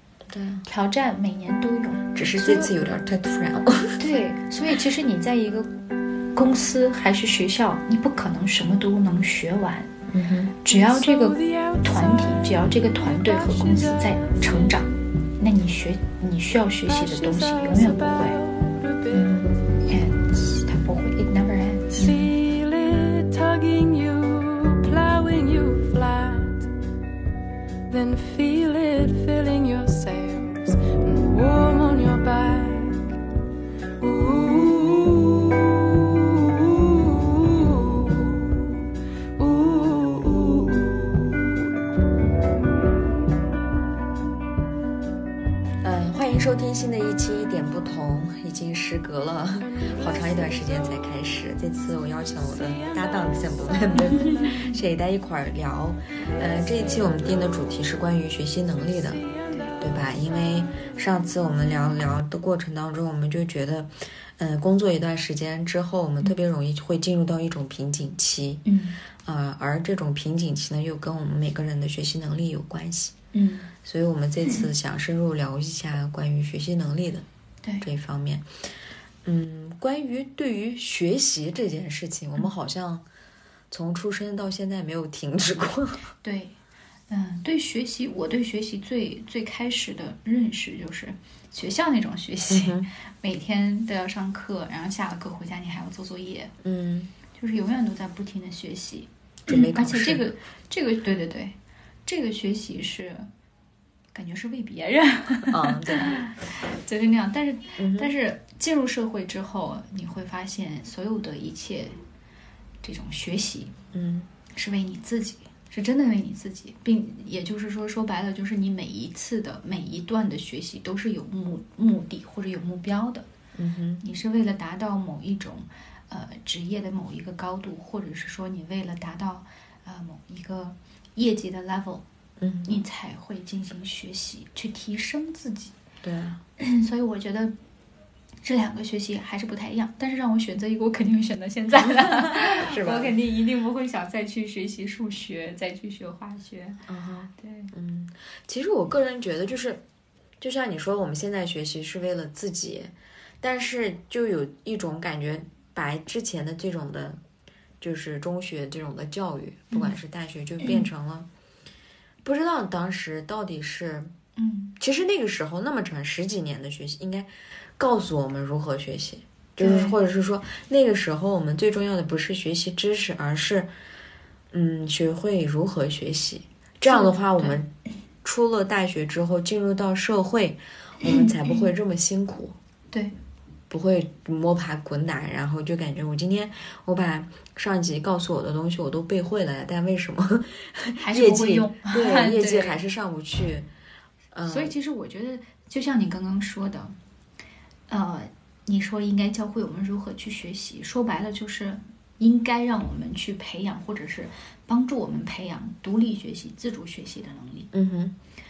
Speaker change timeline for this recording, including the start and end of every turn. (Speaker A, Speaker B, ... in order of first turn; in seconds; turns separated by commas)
Speaker A: 0.3-0.7, Speaker B: 0.7-2.7, Speaker A: 2.1-4.0, Speaker B: 4.0-5.7, Speaker B: 6.3-9.9, Speaker A: 10.1-10.5, Speaker B: 10.6-18.4, Speaker C: 10.7-14.9, Speaker C: 16.9-19.3, Speaker B: 19.1-22.3, Speaker A: 19.1-19.4, Speaker C: 21.9-26.7, Speaker C: 27.9-33.1, Speaker C: 34.0-38.8, Speaker C: 39.4-41.4, Speaker A: 45.8-59.2, Speaker C: 49.7-50.9, Speaker C: 52.6-54.8, Speaker C: 59.2-59.8, Speaker A: 59.8-68.6, Speaker B: 68.6-69.0, Speaker A: 69.2-73.1, Speaker B: 73.3-73.7, Speaker A: 73.8-77.2, Speaker A: 77.8-78.5, Speaker A: 79.2-83.0, Speaker A: 83.7-86.0, Speaker B: 86.2-86.5, Speaker B: 87.1-96.5, Speaker A: 92.5-92.9, Speaker A: 96.6-97.1, Speaker B: 97.3-101.5, Speaker A: 99.5-100.2, Speaker B: 102.0-103.3, Speaker B: 104.1-111.9, Speaker A: 105.5-106.2, Speaker A: 107.8-108.1, Speaker B: 112.8-113.7, Speaker A: 113.9-114.3, Speaker B: 114.5-123.3, Speaker A: 123.5-124.0, Speaker B: 124.0-132.0, Speaker A: 132.4-132.8, Speaker B: 132.7-135.7, Speaker A: 136.0-136.4, Speaker B: 136.6-137.5, Speaker B: 138.4-146.8, Speaker A: 141.9-143.2, Speaker A: 146.9-149.8, Speaker B: 147.3-147.7, Speaker A: 150.4-157.2, Speaker A: 157.8-161.3, Speaker A: 162.2-164.1, Speaker B: 164.3-164.7, Speaker A: 164.8-173.7, Speaker B: 169.6-169.9, Speaker A: 174.5-177.7, Speaker B: 176.8-177.6, Speaker A: 178.2-182.6, Speaker A: 183.7-193.7, Speaker B: 190.9-192.8, Speaker A: 194.3-194.7, Speaker B: 194.4-196.9, Speaker B: 197.9-207.7, Speaker A: 207.7-208.1